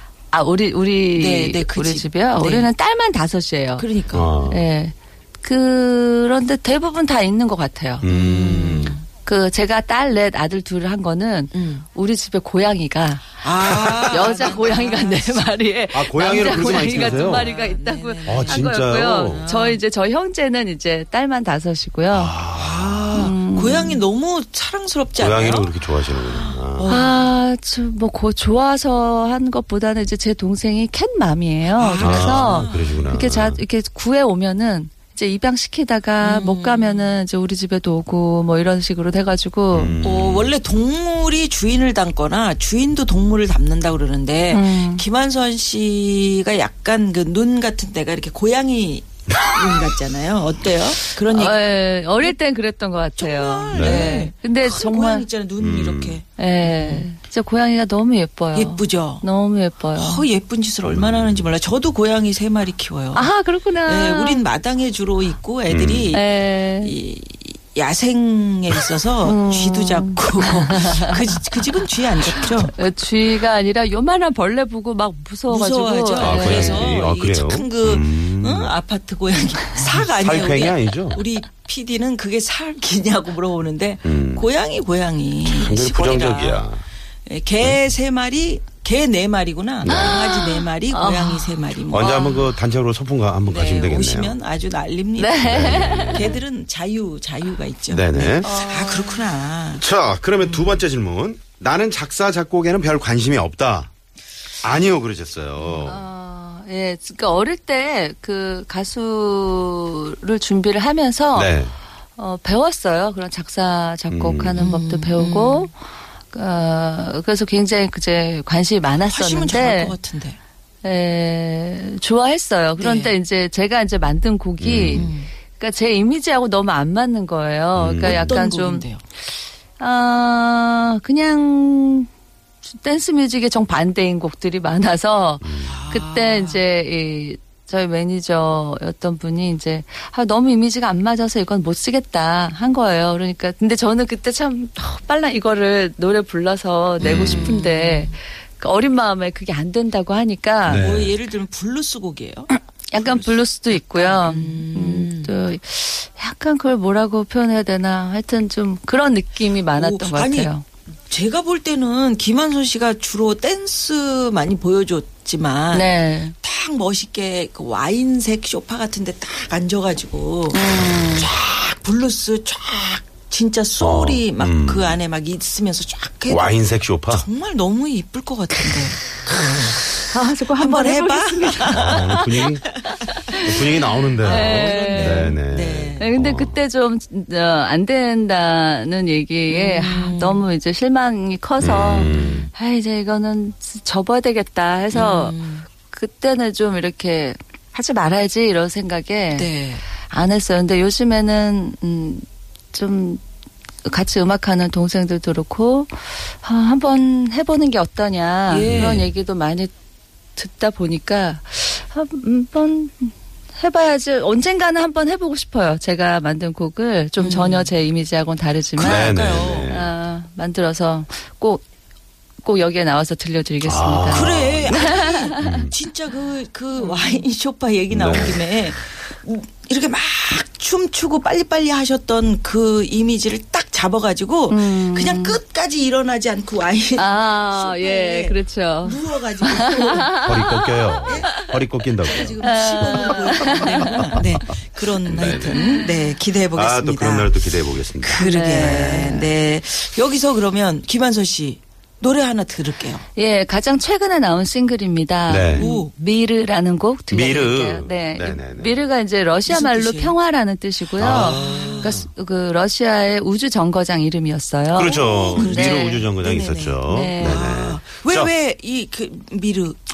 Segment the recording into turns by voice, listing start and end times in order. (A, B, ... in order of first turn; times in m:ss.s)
0:00.3-0:03.8 A
0:01.1-0:02.7 B
0:03.8-0:04.3 B
0:04.1-0:04.6 C
0:04.4-0:08.0 A
0:08.0-0:09.0 C
0:08.0-0:09.0 B
0:09.2-0:13.4 A
0:11.5-0:11.8 B
0:13.4-0:15.6 B
0:14.0-0:22.3 A
0:15.9-0:17.5 C
0:16.2-0:18.7 B
0:18.2-0:19.4 C
0:19.2-0:19.8 B
0:22.1-0:23.3 C
0:22.5-0:27.3 B
0:23.1-0:24.0 A
0:25.2-0:26.9 C
0:26.9-0:40.0 A
0:31.7-0:33.2 B
0:32.0-0:33.6 C
0:36.2-0:37.2 B
0:39.7-0:40.6 C
0:40.0-0:52.3 B
0:44.5-0:45.0 A
0:49.3-0:49.9 C
0:51.3-0:55.3 A
0:53.2-0:57.1 B
0:53.7-0:54.2 C
0:55.6-0:56.2 C
0:56.4-1:00.2 A
0:58.5-0:59.2 B
0:59.9-1:03.3 B
1:00.8-1:01.5 C
1:03.1-1:04.4 A
1:03.8-1:12.7 B
1:05.7-1:06.1 C
1:06.1-1:06.9 A
1:09.2-1:11.1 A
1:12.6-1:16.9 A
1:15.5-1:26.7 B
1:16.2-1:18.7 C
1:20.0-1:21.2 C
1:24.0-1:24.5 C
1:25.4-1:26.8 C
1:27.3-1:32.5 B
1:29.8-1:30.2 C
1:29.8-1:32.1 A
1:31.9-1:34.4 C
1:33.4-1:39.8 B
1:35.2-1:36.4 A
1:35.4-1:36.4 C
1:37.9-1:38.6 C
1:38.4-1:39.3 A
1:39.8-1:43.9 C
1:44.6-1:46.0 C
1:45.8-1:51.6 A
1:51.3-1:51.7 C
1:52.2-1:55.8 A
1:54.1-1:54.6 C
1:54.5-1:55.7 B
1:56.3-1:59.9 A
1:59.0-2:00.4 B
2:00.8-2:08.9 A
2:02.8-2:03.2 B
2:04.6-2:05.1 C
2:04.9-2:05.3 B
2:07.7-2:08.4 C
2:08.0-2:09.0 B
2:09.8-2:12.1 A
2:12.7-2:30.9 A
2:15.4-2:15.8 C
2:15.6-2:16.6 B
2:27.0-2:28.1 B
2:27.0-2:27.6 C
2:30.6-2:31.2 C
2:30.7-2:35.4 B
2:32.9-2:40.6 A
2:39.7-2:40.5 B
2:41.1-3:03.5 B
2:45.7-2:46.3 A
2:50.5-2:51.3 A
2:53.8-2:55.0 C
2:56.3-2:57.3 C
2:59.5-3:05.4 A
3:01.7-3:02.6 C
3:03.3-3:06.6 C
3:04.2-3:06.1 B
3:06.0-3:19.5 A
3:09.5-3:10.4 B
3:11.6-3:12.5 C
3:12.0-3:12.3 B
3:14.9-3:15.7 B
3:19.3-3:19.8 B
3:20.0-3:23.2 A
3:23.8-3:29.7 A
3:28.5-3:29.1 B
3:28.6-3:29.1 C
3:30.4-3:41.6 A
3:37.2-3:37.7 B
3:38.8-3:39.8 B
3:38.8-3:39.9 C
3:42.4-3:45.6 A
3:43.6-3:45.7 C
3:44.1-4:00.2 B
3:46.8-3:47.2 A
3:47.9-3:48.5 C
3:54.5-3:55.4 A
3:57.0-4:01.3 A
4:00.2-4:02.4 C
4:01.0-4:13.0 B
4:02.4-4:04.2 A
4:05.0-4:05.6 C
4:05.5-4:05.9 A
4:06.5-4:09.1 C
4:08.2-4:09.3 A
4:13.1-4:26.0 A
4:15.3-4:15.7 C
4:15.5-4:15.9 B
4:17.1-4:18.8 C
4:19.4-4:20.1 B
4:21.0-4:22.1 C
4:21.0-4:22.0 B
4:24.7-4:28.3 C
4:24.8-4:29.8 B
4:26.9-4:27.4 A